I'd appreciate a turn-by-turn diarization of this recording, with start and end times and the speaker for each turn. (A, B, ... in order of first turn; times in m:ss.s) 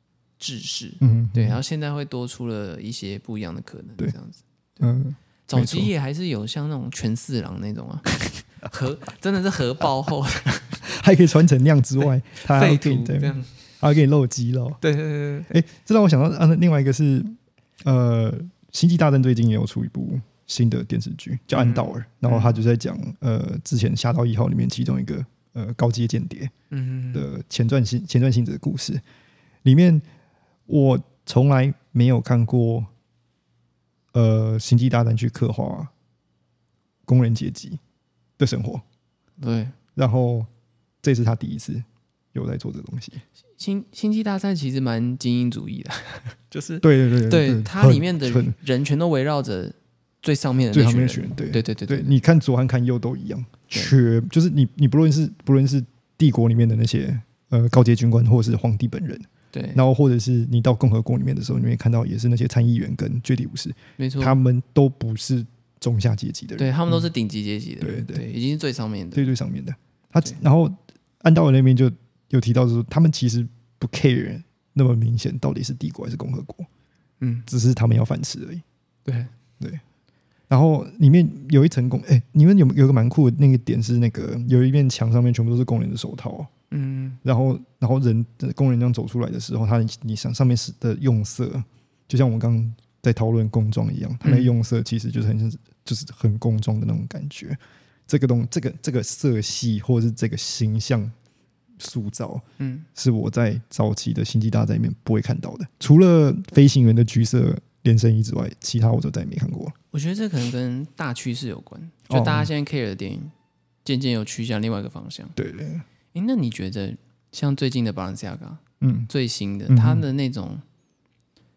0:00.4-0:04.9 A
0:01.0-0:01.6 B
0:04.8-0:05.9 B
0:05.5-0:08.1 A
0:08.6-0:10.8 A
0:10.8-0:14.8 B
0:12.4-0:13.5 A
0:14.8-0:15.5 A
0:15.5-0:26.5 B
0:21.5-0:22.6 A
0:26.7-0:27.3 A
0:27.1-0:29.0 B
0:29.6-0:30.0 B
0:30.7-0:32.9 B
0:34.1-0:35.9 B
0:37.1-0:37.8 B
0:38.4-0:38.8 B
0:39.4-0:39.8 A
0:40.0-0:40.5 B
0:41.0-0:43.2 B
0:43.6-0:52.2 A
0:46.8-0:48.6 B
0:50.7-1:07.1 B
0:59.5-0:59.8 A
1:04.0-1:04.4 A
1:06.6-1:09.3 A
1:07.8-1:08.2 B
1:09.1-1:16.7 B
1:17.2-1:17.5 A
1:17.5-1:18.6 B
1:19.1-1:19.3 A
1:20.5-1:26.5 B
1:26.7-1:27.2 A
1:27.2-1:41.2 B
1:34.2-1:34.5 A
1:41.8-1:49.8 B
1:42.6-1:42.9 A
1:49.9-1:53.3 A
1:52.1-1:52.5 B
1:53.8-1:55.4 A
1:55.4-1:55.8 B
1:56.1-2:00.6 A
1:58.8-1:59.1 B
1:59.7-2:00.0 B